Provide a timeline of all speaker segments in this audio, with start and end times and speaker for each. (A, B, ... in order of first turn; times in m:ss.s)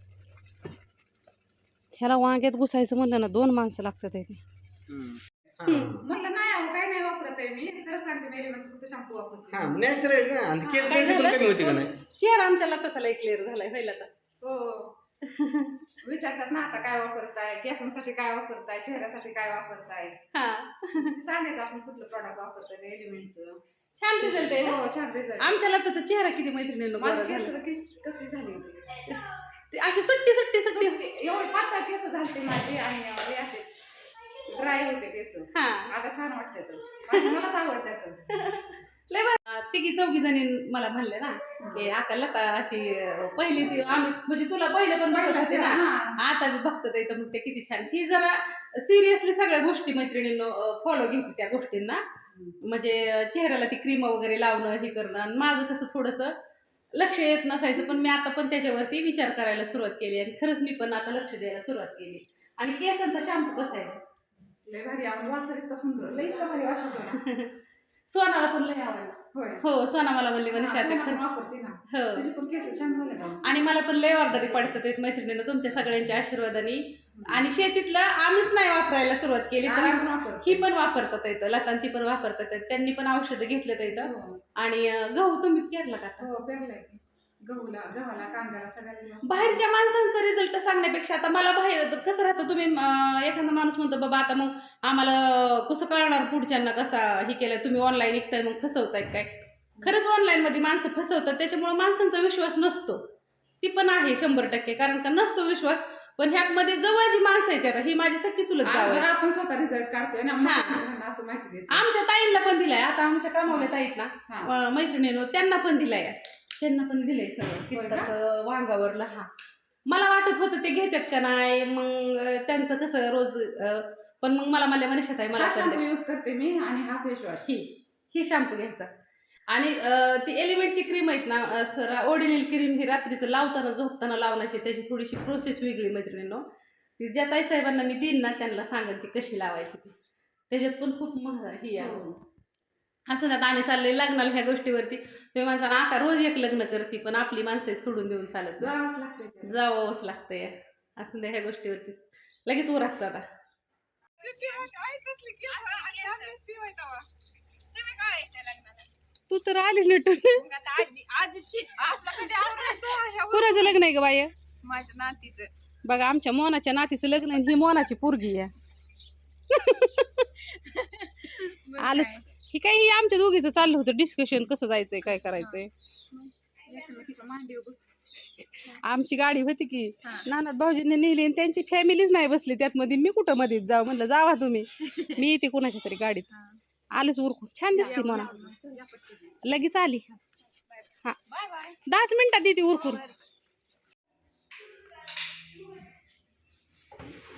0:02.0-0:04.4 A
0:04.9-0:06.1 B
0:05.7-0:06.0 A
0:06.0-0:09.7 C
0:09.5-0:11.9 B
0:10.6-0:14.1 A
0:14.4-0:14.9 C
0:15.2-0:15.8 A
0:16.0-0:20.2 C
0:20.3-0:21.1 A
0:21.0-0:23.6 C
0:24.0-0:24.8 A
0:24.2-0:25.6 C
0:25.4-0:27.5 A
0:27.0-0:29.0 C
0:29.1-0:31.0 A
0:30.7-0:38.2 C
0:35.5-0:35.9 A
0:38.3-0:52.0 A
0:45.1-0:46.2 C
0:52.6-0:56.3 A
0:56.9-1:04.0 A
1:04.6-1:07.2 C
1:07.2-1:07.5 A
1:08.1-1:11.2 A
1:09.3-1:09.6 C
1:10.5-1:13.4 C
1:11.9-1:12.2 A
1:13.4-1:26.2 A
1:17.1-1:17.5 C
1:19.6-1:20.6 C
1:24.0-1:24.4 C
1:26.2-1:29.6 C
1:29.2-1:39.3 A
1:39.8-1:43.0 A
1:43.6-1:49.0 A
1:48.6-1:51.8 C
1:50.4-1:50.8 A
1:51.7-1:59.3 A
1:57.7-1:58.1 C
1:59.9-2:05.8 A
2:05.3-2:07.5 C
2:07.4-2:08.9 A
2:09.5-2:16.4 A
2:17.0-2:19.9 A
2:20.5-2:22.0 A
2:21.8-2:22.2 C
2:23.1-2:28.7 A
2:28.6-2:29.5 C
2:29.4-2:33.2 A
2:34.2-2:37.0 C
2:37.7-2:38.9 C
2:39.3-2:40.4 A
2:40.4-2:43.8 C
2:43.3-2:44.3 A
2:44.6-2:45.5 C
2:45.8-2:48.5 A
2:49.5-2:50.3 A
2:50.5-2:52.2 C
2:51.8-2:55.7 A
2:55.4-2:57.9 C
2:58.6-3:06.3 A
3:06.9-3:08.3 A
3:07.7-3:09.4 C
3:09.4-3:10.1 A
3:10.7-3:11.8 C
3:11.8-3:13.0 A
3:12.7-3:13.2 C